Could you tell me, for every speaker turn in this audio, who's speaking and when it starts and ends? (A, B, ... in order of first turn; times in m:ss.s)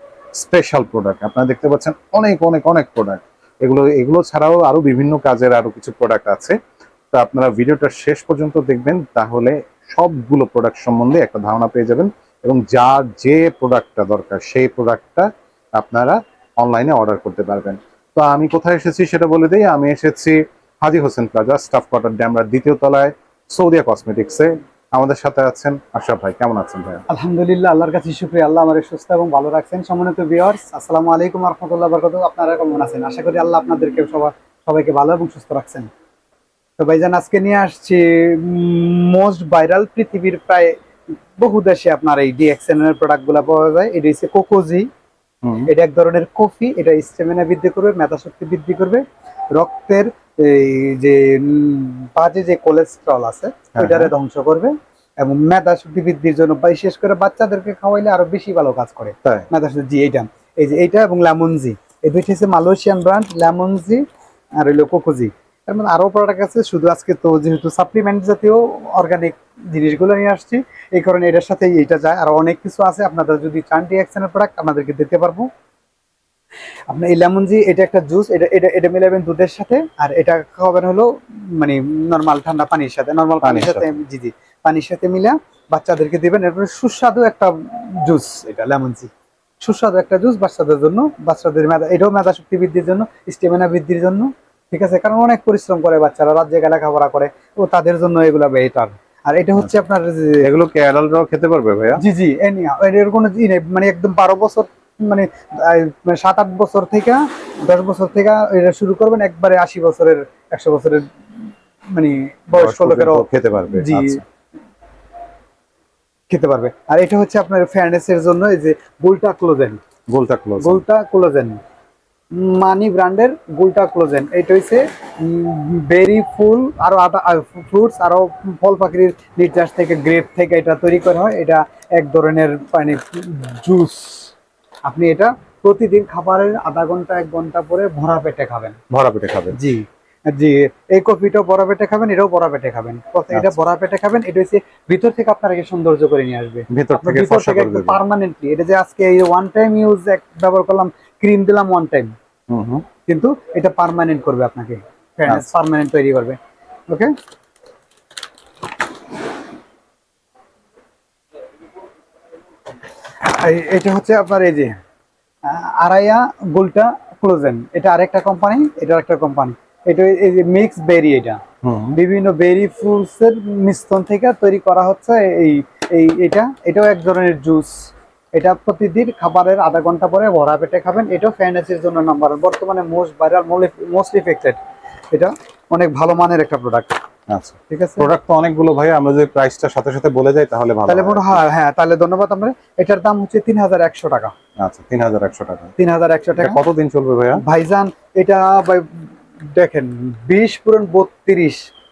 0:00.4-0:06.6 A
0:07.1-0:27.0 A
0:27.1-0:35.9 B
0:36.8-0:40.7 B
0:41.4-0:44.9 B
0:45.4-0:45.7 A
0:45.7-0:49.0 B
0:49.5-1:04.0 B
0:53.8-0:54.1 A
1:04.6-1:15.5 B
1:16.9-1:27.5 B
1:23.4-1:24.0 A
1:28.0-1:29.1 B
1:29.6-1:40.4 B
1:40.4-1:42.0 A
1:42.0-1:51.0 B
1:51.9-1:54.2 B
1:52.5-1:54.2 A
1:56.3-1:59.8 B
2:00.1-2:00.8 A
2:00.6-2:01.6 B
2:02.3-2:14.3 B
2:14.9-2:18.8 B
2:18.9-2:19.6 A
2:19.5-2:32.1 B
2:23.3-2:23.6 A
2:26.7-2:28.0 A
2:32.5-2:32.8 A
2:33.0-2:36.4 B
2:43.2-2:44.8 B
2:45.4-2:51.4 B
2:51.6-2:52.0 A
2:51.9-3:04.6 B
3:05.1-3:07.0 B
3:07.3-3:11.4 A
3:07.7-3:08.1 B
3:10.9-3:14.3 B
3:14.6-3:15.7 A
3:15.8-3:16.6 B
3:16.4-3:17.4 A
3:17.4-3:21.6 B